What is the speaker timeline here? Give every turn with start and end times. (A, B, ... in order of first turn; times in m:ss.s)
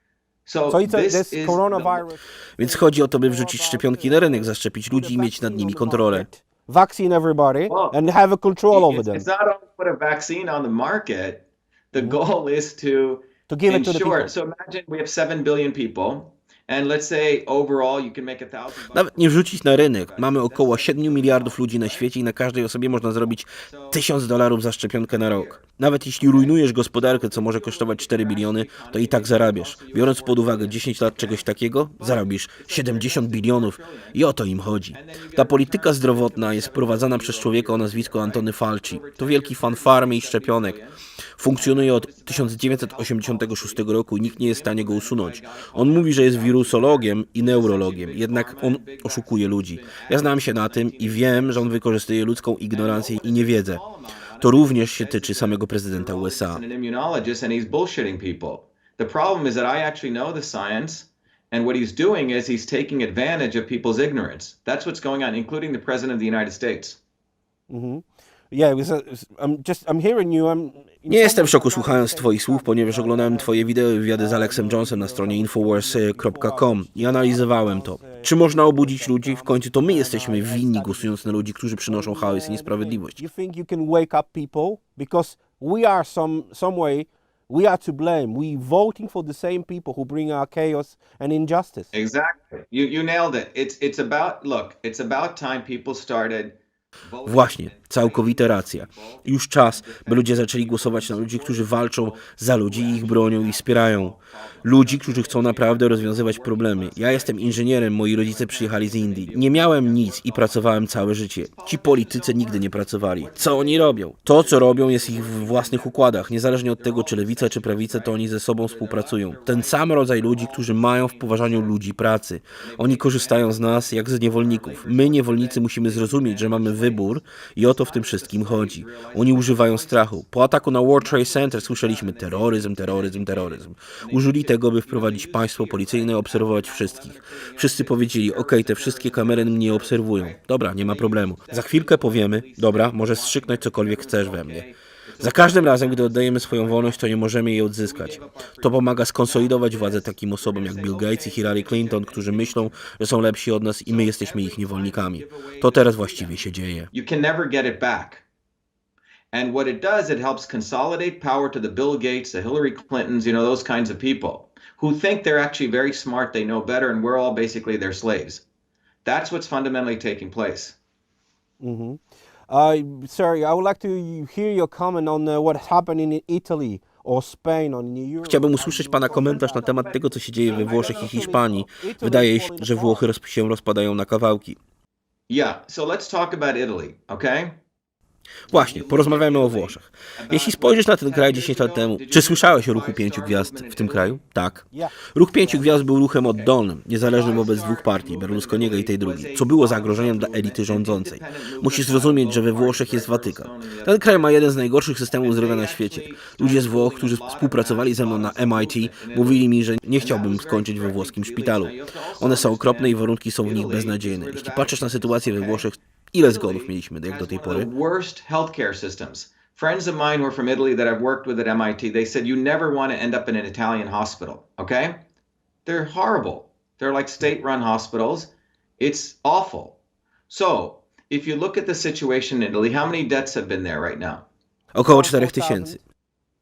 0:00.5-0:02.0 A
0:00.7-0:09.2 B
0:02.6-0:06.3 C
0:07.7-0:08.0 A
0:08.7-0:22.1 A
0:12.0-0:12.2 B
0:13.5-0:14.3 B
0:18.9-0:40.8 C
0:23.1-0:24.0 A
0:25.1-0:25.6 A
0:26.2-0:34.3 A
0:34.9-0:41.0 A
0:41.4-0:53.8 C
0:41.5-0:51.7 A
0:52.7-1:07.0 A
0:54.4-0:56.6 C
1:07.7-1:13.5 B
1:11.1-1:23.2 C
1:14.1-1:31.9 B
1:31.9-1:51.0 A
1:37.2-2:24.7 C
1:51.6-2:01.8 A
2:02.6-2:10.2 A
2:10.9-2:32.8 A
2:25.2-2:36.9 C
2:33.8-2:38.2 A
2:39.3-2:48.4 A
2:49.0-2:50.8 A
2:51.6-3:03.0 B
2:58.2-3:04.6 C
2:59.5-3:01.3 A
3:05.3-3:07.5 A
3:08.5-3:37.7 C
3:08.5-3:14.2 A
3:14.7-3:15.7 B
3:16.2-3:24.6 A
3:25.1-3:35.7 A
3:36.2-3:45.0 A
3:45.6-3:49.8 A
3:50.3-3:54.2 A
3:54.8-3:55.8 C
3:54.9-3:55.8 B